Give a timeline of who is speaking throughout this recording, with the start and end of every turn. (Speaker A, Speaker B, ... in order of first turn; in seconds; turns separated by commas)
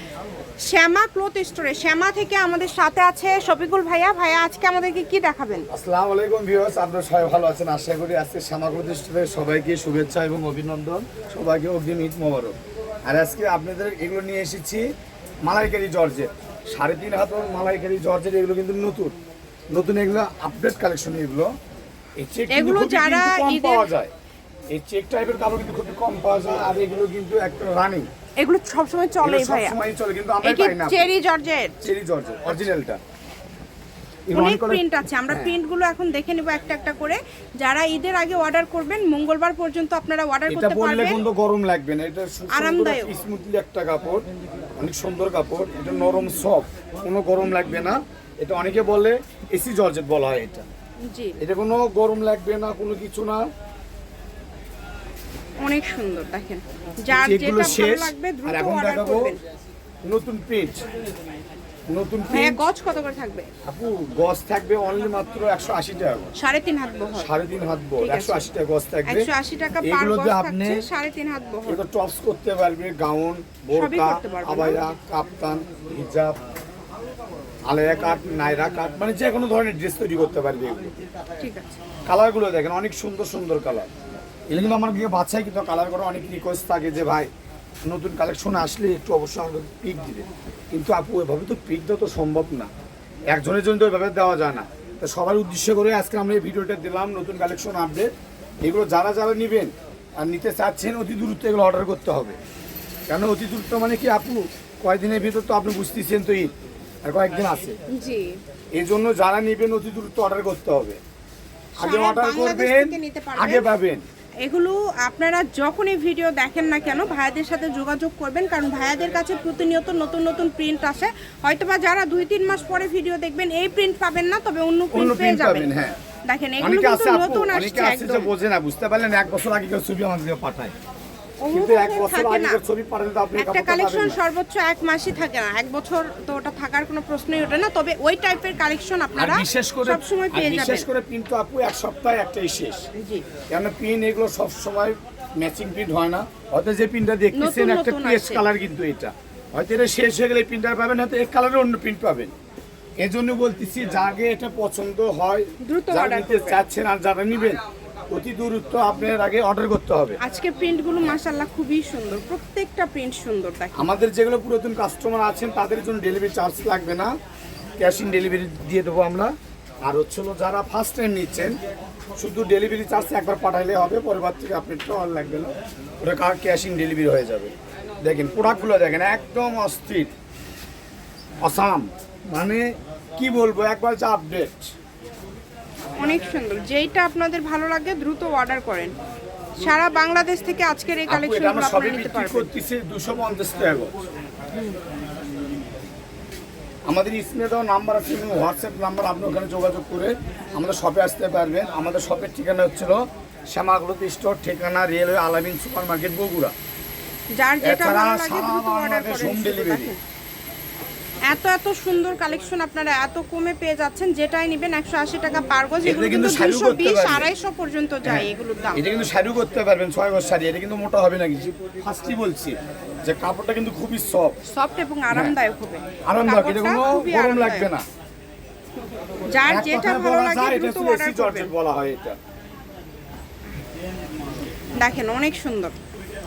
Speaker A: 0.6-5.7, Speaker B: 5.7-14.8, Speaker B: 15.4-19.1, Speaker B: 19.7-21.5, Speaker B: 22.2-24.1, Speaker A: 22.5-23.9, Speaker B: 24.7-28.1, Speaker A: 28.4-29.8, Speaker B: 29.2-31.1, Speaker A: 30.4-31.9, Speaker B: 31.8-33.0, Speaker B: 34.3-35.5, Speaker A: 34.3-41.2, Speaker B: 40.5-44.2, Speaker A: 42.5-43.1, Speaker B: 44.8-50.7, Speaker A: 51.0-51.4, Speaker B: 51.4-53.4, Speaker A: 55.6-59.4, Speaker B: 57.1-59.3, Speaker B: 60.0-60.8, Speaker B: 61.9-62.7, Speaker A: 62.3-63.5, Speaker B: 63.7-66.3, Speaker A: 66.3-67.3, Speaker B: 67.2-69.3, Speaker A: 68.0-68.5, Speaker A: 69.1-71.8, Speaker B: 69.8-70.8, Speaker B: 71.7-76.3, Speaker A: 73.7-74.8, Speaker B: 77.7-81.0, Speaker A: 81.4-81.8, Speaker B: 82.0-83.9, Speaker B: 84.5-87.3, Speaker B: 87.8-92.7, Speaker B: 93.3-98.1, Speaker B: 98.6-102.4, Speaker B: 103.1-106.5, Speaker B: 107.0-107.8, Speaker A: 107.9-108.4, Speaker B: 108.8-111.0, Speaker A: 111.8-113.7, Speaker B: 111.8-114.0, Speaker A: 114.4-125.7, Speaker B: 124.9-126.0, Speaker A: 126.2-128.3, Speaker B: 126.6-130.7, Speaker A: 131.4-132.6, Speaker B: 131.5-134.2, Speaker A: 133.4-140.8, Speaker B: 139.2-142.9, Speaker A: 143.0-143.2, Speaker B: 143.5-152.3, Speaker A: 147.3-148.4, Speaker B: 153.0-157.6, Speaker A: 155.6-156.6, Speaker B: 158.1-160.2, Speaker A: 160.2-163.9, Speaker B: 163.8-167.1, Speaker B: 167.8-169.3, Speaker B: 169.8-171.5, Speaker B: 172.2-175.5, Speaker B: 176.0-177.5, Speaker B: 178.0-180.1, Speaker B: 181.4-182.6, Speaker B: 183.2-184.7, Speaker A: 186.0-188.9, Speaker A: 189.6-192.5, Speaker B: 191.1-194.0, Speaker B: 196.9-206.5, Speaker A: 207.3-210.0, Speaker B: 207.6-209.9, Speaker A: 211.3-218.8, Speaker B: 215.8-217.3, Speaker B: 218.0-224.4, Speaker A: 224.5-227.7, Speaker B: 225.1-225.3, Speaker B: 226.0-227.8, Speaker A: 229.3-231.5, Speaker B: 229.4-232.2, Speaker A: 234.8-235.8